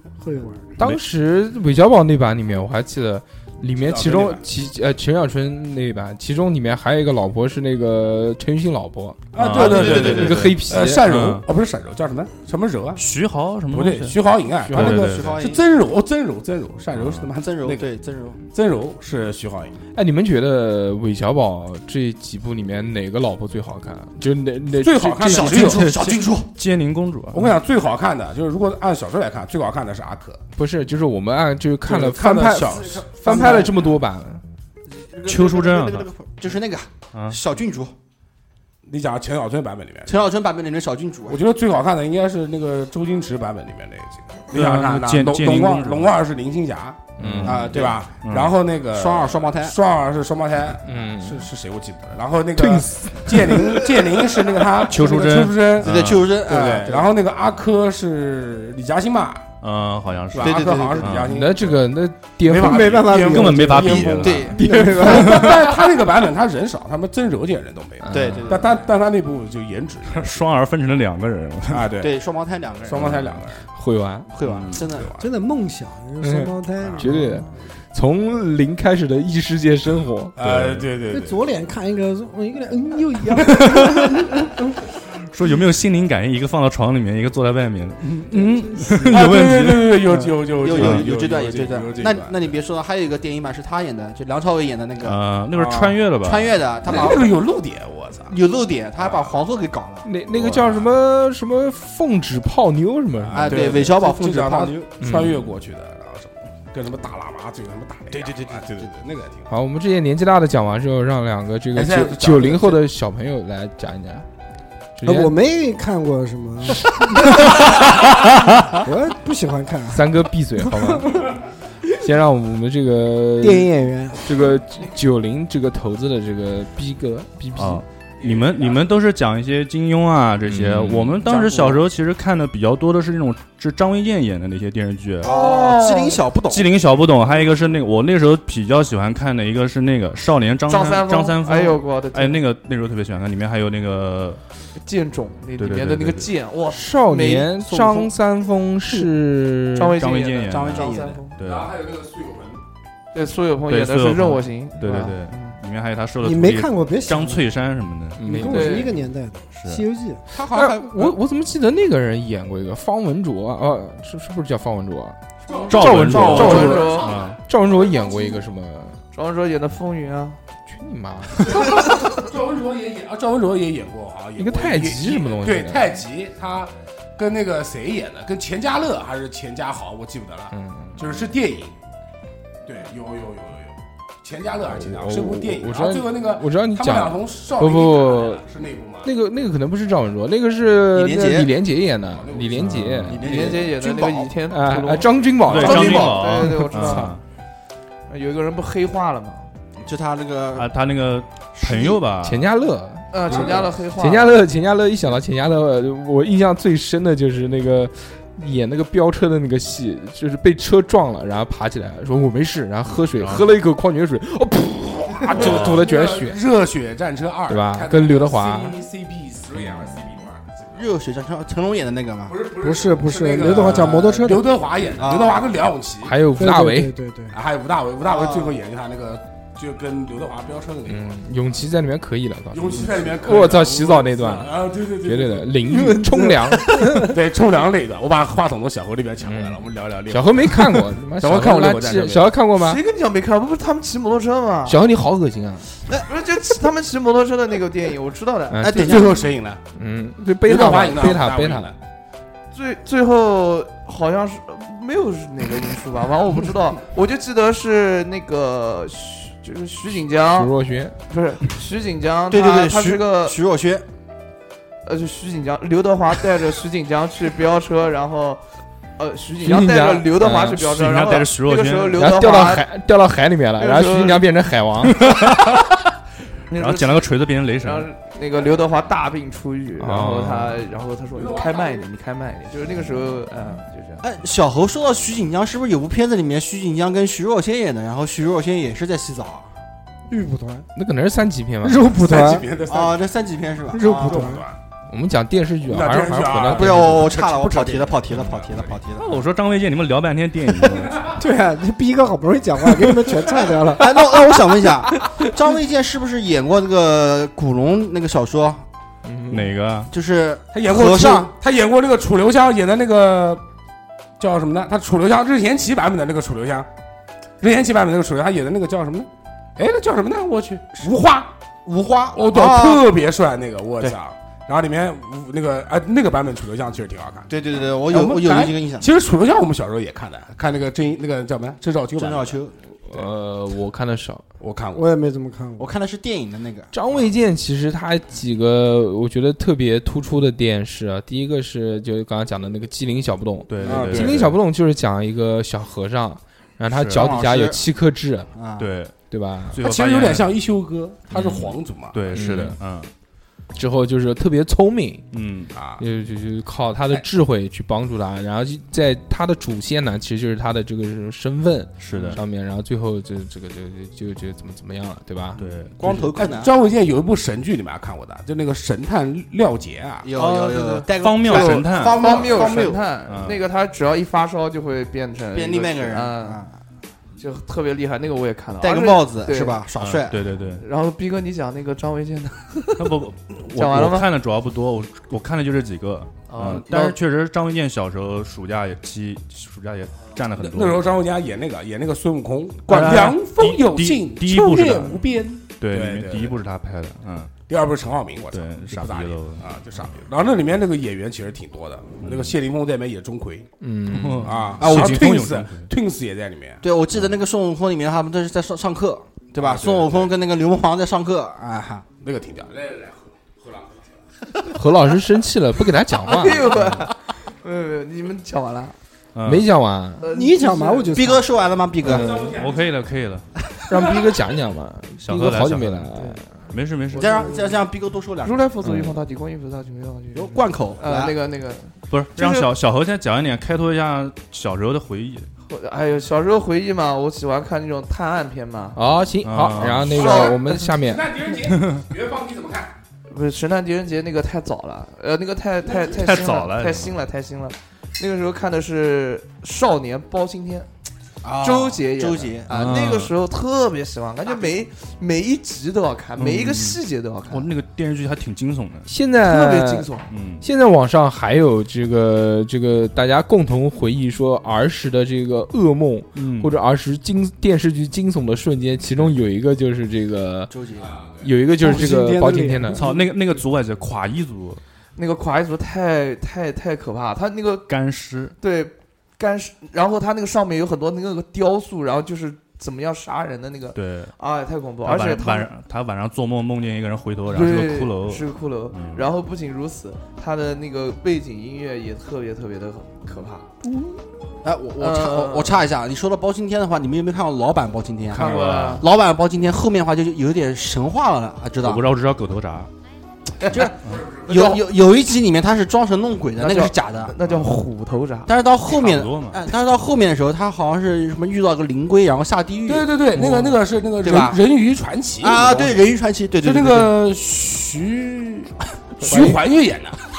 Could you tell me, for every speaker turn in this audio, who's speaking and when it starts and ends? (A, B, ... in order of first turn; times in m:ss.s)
0:00.2-0:00.7 A
0:00.8-0:11.0 B
0:03.8-0:04.4 C
0:09.3-0:13.0 C
0:09.4-0:11.4 D
0:09.5-0:10.4 E
0:13.0-0:14.2 D
0:13.7-0:17.9 C
0:14.6-0:15.0 B
0:14.7-0:15.4 D
0:14.8-0:15.6 E
0:16.9-0:17.2 D
0:17.4-0:18.4 E
0:18.5-0:19.8 C
0:19.9-0:25.8 B
0:24.7-0:26.2 C
0:25.2-0:26.5 E
0:25.8-0:27.5 D
0:27.3-0:30.4 C
0:30.6-0:34.4 B
0:31.8-0:33.8 C
0:32.8-0:33.9 E
0:34.9-0:37.9 E
0:35.2-0:36.1 D
0:38.8-0:40.1 C
0:40.0-0:41.4 E
0:41.3-0:59.5 C
0:44.5-0:46.1 D
0:47.2-0:47.7 B
0:47.2-0:48.5 D
0:47.4-0:48.0 E
0:48.9-0:49.8 E
0:50.8-0:51.5 B
0:52.6-0:53.8 B
0:54.9-0:56.3 D
0:55.8-0:57.1 E
0:59.6-1:01.3 D
1:00.3-1:01.8 C
1:00.4-1:01.2 E
1:01.3-1:03.2 B
1:02.4-1:10.4 C
1:02.5-1:05.6 A
1:03.2-1:05.5 D
1:03.8-1:05.5 E
1:04.5-1:05.2 B
1:08.0-1:08.5 B
1:08.1-1:08.8 E
1:10.1-1:11.9 D
1:11.7-1:12.1 C
1:12.0-1:13.1 E
1:12.8-1:13.6 C
1:13.1-1:13.4 D
1:13.7-1:14.3 B
1:14.3-1:15.1 E
1:14.4-1:15.2 C
1:14.4-1:14.9 D
1:15.2-1:17.5 A
1:16.2-1:20.4 B
1:20.4-1:21.4 C
1:20.4-1:20.8 D
1:21.1-1:24.6 A
1:23.6-1:24.2 D
1:25.2-1:30.2 D
1:28.3-1:32.5 C
1:28.3-1:29.2 A
1:30.5-1:35.2 E
1:30.7-1:31.0 D
1:35.0-1:36.6 D
1:35.5-1:36.1 C
1:36.2-1:37.4 E
1:36.8-1:38.3 C
1:38.3-1:40.1 E
1:39.0-1:39.4 C
1:40.0-1:43.7 B
1:43.2-1:49.5 C
1:43.3-1:44.8 E
1:45.0-1:45.5 B
1:48.1-1:48.9 E
1:49.5-1:54.2 B
1:51.7-1:52.8 C
1:55.0-1:55.4 B
1:55.0-1:57.7 A
1:58.6-2:01.3 A
1:59.9-2:01.3 B
2:01.9-2:07.8 B
2:03.4-2:04.4 A
2:07.5-2:15.3 D
2:08.2-2:09.0 C
2:10.5-2:11.2 B
2:11.2-2:11.8 C
2:15.2-2:16.7 E
2:15.2-2:16.2 F
2:16.5-2:24.4 D
2:20.7-2:22.4 F
2:24.8-2:28.0 F
2:25.6-2:26.3 D
2:26.7-2:30.0 B
2:29.7-2:31.4 F
2:29.9-2:31.8 D
2:30.5-2:31.2 E
2:31.4-2:32.6 C
2:33.1-2:35.6 F
2:33.7-2:38.6 D
2:36.2-2:37.4 A
2:38.2-2:38.8 B
2:38.2-2:40.2 A
2:38.5-2:39.0 F
2:39.6-2:39.8 D
2:40.3-2:41.2 E
2:40.5-2:45.2 B
2:45.5-2:48.2 C
2:45.5-2:47.2 F
2:45.7-2:47.4 D
2:45.7-2:46.9 B
2:47.5-2:49.0 B
2:49.1-2:50.4 F
2:50.7-2:51.7 B
2:51.4-3:01.7 C
2:54.4-2:56.0 B
3:00.5-3:01.0 B
3:02.6-3:09.1 C
3:04.7-3:08.4 B
3:09.0-3:13.2 B
3:10.9-3:11.5 E
3:12.0-3:13.6 C
3:12.6-3:13.2 D
3:13.1-3:14.3 E
3:13.2-3:17.1 F
3:14.5-3:17.1 B
3:15.4-3:17.2 D
3:15.6-3:16.0 E
3:18.1-3:19.5 F
3:19.8-3:20.7 E
3:20.6-3:22.5 D
3:21.6-3:22.0 E
3:22.2-3:36.4 B
3:23.1-3:24.4 F
3:33.1-3:33.5 D
3:35.1-3:40.8 C
3:35.4-3:35.8 D
3:37.5-3:38.8 B
3:40.7-3:42.4 E
3:42.3-3:46.2 C
3:42.6-3:44.5 A
3:45.0-3:45.5 E
3:46.0-3:46.9 B
3:46.3-3:47.4 A
3:47.3-3:51.1 C
3:48.0-3:48.6 E
3:50.9-3:57.1 B
3:52.5-3:55.6 C
3:55.7-3:57.1 A
3:57.0-4:02.4 C
3:59.2-4:02.8 B
4:02.5-4:04.8 F
4:04.6-4:05.7 B
4:05.9-4:08.7 F
4:08.5-4:09.1 B
4:08.6-4:09.3 E
4:08.8-4:09.6 C
4:09.7-4:11.7 B
4:10.4-4:11.8 C
4:12.5-4:20.5 F
4:20.4-4:21.0 B
4:21.1-4:23.4 F
4:22.3-4:23.8 E
4:24.8-4:28.4 F
4:29.0-4:32.6 F
4:29.4-4:30.6 B
4:30.4-4:32.1 D
4:32.0-4:35.3 B
4:33.6-4:34.2 F
4:34.9-4:35.6 D
4:36.5-4:37.1 F
4:36.5-4:37.9 D
4:37.6-4:44.0 F
4:39.8-4:40.6 B
4:41.1-4:41.8 C
4:44.0-4:49.5 E
4:50.1-4:50.7 A
4:50.7-4:52.0 B
4:51.6-4:52.5 A
4:51.9-4:53.0 C
4:52.6-4:54.3 E
4:53.7-4:54.4 A
4:53.9-4:54.6 C
4:54.9-4:57.1 B
4:55.6-4:58.8 C
4:56.5-4:59.2 E
4:59.0-5:01.1 D
5:01.1-5:04.4 A
5:03.7-5:08.6 E
5:09.0-5:09.5 B
5:09.3-5:09.9 D
5:09.9-5:11.3 E
5:10.5-5:13.4 C
5:14.2-5:16.7 C
5:17.4-5:21.3 C
5:21.6-5:22.9 E
5:22.1-5:27.3 C
5:27.3-5:28.9 E
5:27.8-5:32.4 C
5:32.0-5:32.5 E
5:32.8-5:34.2 B
5:34.4-5:34.8 C
5:34.7-5:35.7 A
5:35.6-5:36.7 E
5:36.7-5:48.3 B
5:43.5-5:44.4 D
5:43.6-5:44.1 A
5:43.6-5:44.2 C
5:46.7-5:47.1 D
5:46.9-5:47.7 E
5:48.3-5:48.7 E
5:48.6-5:48.9 D
5:49.1-5:49.6 B
5:49.5-5:50.3 D
5:49.6-5:52.2 C
5:51.1-5:52.9 D
5:51.1-5:51.5 B
5:52.1-5:52.6 B
5:53.5-5:55.1 B
5:55.1-5:55.5 D
5:55.5-5:55.8 C
5:55.8-6:05.4 B
6:01.8-6:02.2 D
6:05.4-6:06.1 D
6:05.4-6:06.5 E
6:06.1-6:10.1 C
6:10.0-6:12.8 E
6:10.1-6:16.4 F
6:10.9-6:13.4 D
6:12.0-6:12.6 C
6:15.3-6:16.5 E
6:17.2-6:19.6 F
6:18.6-6:20.2 E
6:19.8-6:20.6 D
6:20.6-6:23.0 F
6:22.8-6:30.9 D
6:23.5-6:24.1 F
6:26.3-6:27.0 F
6:30.3-6:36.4 C
6:32.7-6:37.3 D
6:37.5-6:43.5 C
6:38.3-6:39.9 D
6:42.0-6:42.4 D
6:43.6-6:44.4 B
6:43.9-6:45.7 D
6:44.2-6:46.6 C
6:44.6-6:45.0 E
6:46.6-6:51.8 E
6:49.4-6:50.1 C
6:52.0-6:53.8 C
6:54.5-6:56.7 B
6:56.0-6:58.8 F
6:56.5-6:56.9 D
6:59.1-6:59.5 D
6:59.2-7:00.0 B
7:00.0-7:01.2 F
7:00.1-7:01.3 A
7:00.9-7:02.3 E
7:01.8-7:02.3 B
7:01.8-7:02.9 C
7:02.4-7:03.2 D
7:03.6-7:03.9 E
7:03.7-7:06.2 B
7:05.0-7:06.0 D
7:06.5-7:07.3 D
7:06.9-7:07.6 F
7:06.9-7:08.5 E
7:08.2-7:12.5 F
7:08.6-7:09.0 B
7:10.1-7:11.1 E
7:11.9-7:15.3 D
7:15.5-7:18.8 F
7:18.7-7:21.0 B
7:19.2-7:20.2 D
7:19.9-7:20.7 F
7:20.1-7:22.7 C
7:21.6-7:21.8 D
7:23.1-7:30.7 F
7:25.9-7:27.0 D
7:31.2-7:32.8 E
7:31.4-7:37.5 F
7:32.5-7:33.1 D
7:36.2-7:38.9 D
7:38.8-7:39.9 B
7:39.2-7:40.1 F
7:40.1-7:40.4 D
7:40.4-7:50.5 B
7:46.2-7:46.6 D
7:50.5-7:51.0 E
7:50.8-7:51.3 C
7:51.2-7:52.8 B
7:51.6-7:53.2 A
7:52.7-7:54.6 D
7:55.0-7:57.7 F
7:57.7-7:58.3 D
7:58.4-8:05.5 F
8:03.7-8:04.1 D
8:04.8-8:09.1 D
8:07.3-8:13.9 F
8:14.4-8:21.9 E
8:14.8-8:15.7 F
8:18.1-8:18.8 D
8:18.1-8:18.8 F
8:21.6-8:22.7 D
8:23.4-8:23.7 F
8:23.5-8:27.1 E
8:24.2-8:24.6 C
8:26.4-8:28.3 F
8:27.2-8:27.6 D
8:28.3-8:33.4 E
8:28.6-8:29.4 D
8:32.7-8:35.9 C
8:34.0-8:34.4 E
8:35.2-8:37.0 E
8:36.4-8:40.0 C
8:39.1-8:39.3 B